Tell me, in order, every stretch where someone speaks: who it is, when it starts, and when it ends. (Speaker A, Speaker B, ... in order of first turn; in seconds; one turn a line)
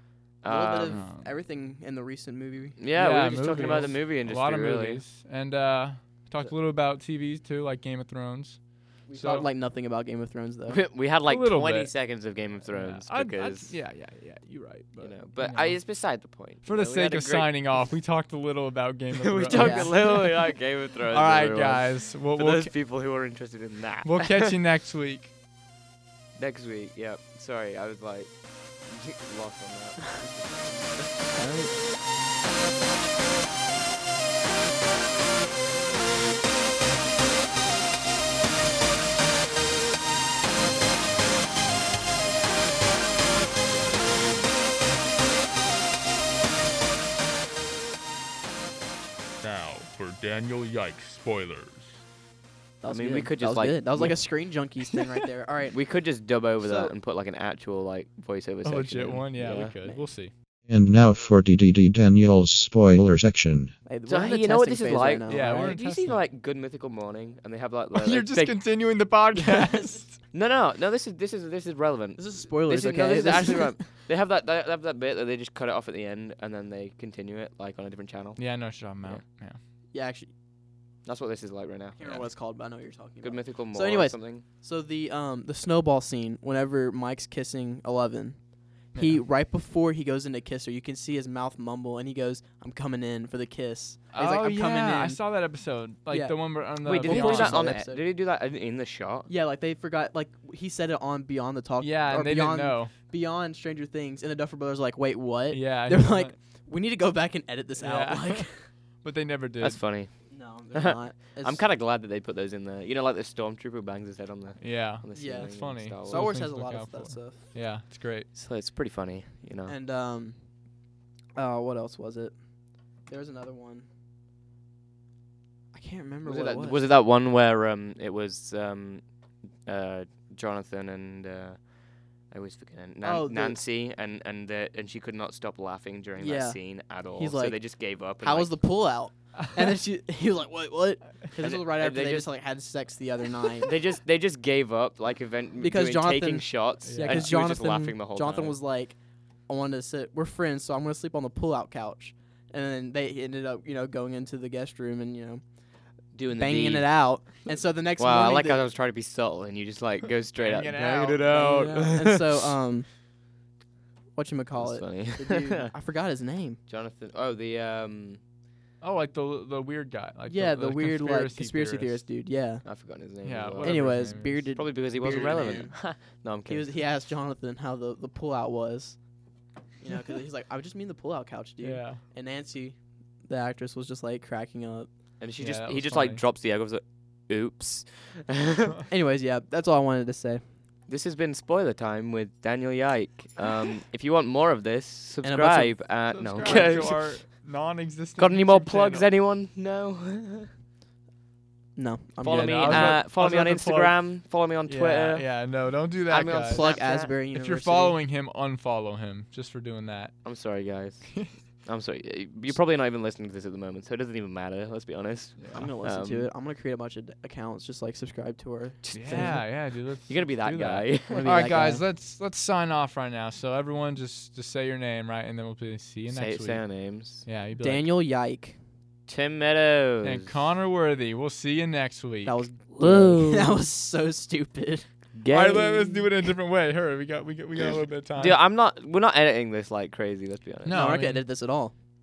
Speaker A: 0.4-1.0
Speaker B: 0.4-2.8
Speaker C: 0.8-1.3
Speaker A: 2.8-5.0
Speaker C: 2.9-9.5
Speaker B: 3.5-3.9
Speaker B: 9.1-10.8
Speaker A: 10.7-13.7
Speaker C: 11.1-22.9
Speaker A: 15.0-17.9
Speaker A: 19.1-24.6
Speaker B: 19.5-19.9
Speaker C: 24.0-25.3
Speaker A: 26.4-31.1
Speaker B: 31.3-31.7
Speaker D: 49.4-51.9
Speaker B: 52.8-55.8
Speaker A: 52.9-54.2
Speaker A: 55.7-59.8
Speaker B: 56.6-56.9
Speaker C: 58.6-60.3
Speaker B: 59.5-60.0
Speaker E: 60.7-63.8
Speaker B: 63.9-65.8
Speaker A: 64.0-68.9
Speaker C: 65.3-66.2
Speaker C: 67.9-70.2
Speaker B: 69.6-70.0
Speaker A: 70.3-78.4
Speaker B: 72.2-73.7
Speaker C: 78.4-79.6
Speaker B: 79.9-80.3
Speaker A: 81.0-82.0
Speaker B: 82.0-95.2
Speaker A: 83.2-84.4
Speaker C: 88.9-89.2
Speaker C: 94.1-97.8
Speaker B: 96.1-98.0
Speaker A: 96.8-99.3
Speaker B: 99.3-108.5
Speaker C: 101.8-102.9
Speaker C: 105.5-106.3
Speaker C: 107.8-109.8
Speaker A: 109.6-116.4
Speaker B: 110.3-111.7
Speaker C: 114.6-118.3
Speaker B: 115.1-117.4
Speaker A: 118.3-119.8
Speaker B: 119.7-120.4
Speaker B: 121.3-122.3
Speaker B: 123.1-123.9
Speaker B: 125.7-126.8
Speaker A: 126.2-129.1
Speaker A: 129.6-131.7
Speaker A: 132.2-138.6
Speaker B: 133.0-133.6
Speaker B: 136.2-143.8
Speaker A: 141.4-142.3
Speaker A: 143.6-148.6
Speaker B: 145.6-155.4
Speaker C: 146.8-147.3
Speaker A: 156.1-156.9
Speaker B: 156.4-158.6
Speaker A: 158.0-162.5
Speaker C: 160.3-161.6
Speaker B: 161.3-162.9
Speaker B: 164.1-166.6
Speaker A: 164.5-165.7
Speaker A: 166.7-168.2
Speaker C: 168.8-172.0
Speaker B: 170.3-172.6
Speaker A: 172.6-176.7
Speaker C: 173.2-175.6
Speaker B: 173.6-179.0
Speaker B: 179.8-184.9
Speaker C: 181.6-182.0
Speaker A: 185.2-188.8
Speaker C: 185.4-186.2
Speaker B: 188.9-190.4
Speaker A: 190.9-197.1
Speaker B: 195.2-195.8
Speaker C: 196.1-199.1
Speaker B: 196.4-196.9
Speaker A: 198.2-200.5
Speaker B: 201.8-203.0
Speaker A: 202.2-205.3
Speaker C: 202.2-210.2
Speaker A: 206.1-207.1
Speaker B: 206.2-208.0
Speaker A: 210.2-216.3
Speaker C: 215.4-215.7
Speaker B: 215.5-219.4
Speaker A: 218.8-221.5
Speaker C: 218.9-227.9
Speaker B: 221.1-221.8
Speaker A: 226.1-227.2
Speaker B: 227.6-228.6
Speaker A: 229.1-230.3
Speaker C: 230.0-232.4
Speaker B: 232.2-234.9
Speaker A: 232.7-233.6
Speaker A: 235.1-236.1
Speaker C: 235.3-238.4
Speaker A: 238.1-240.8
Speaker C: 240.6-241.4
Speaker B: 240.7-241.7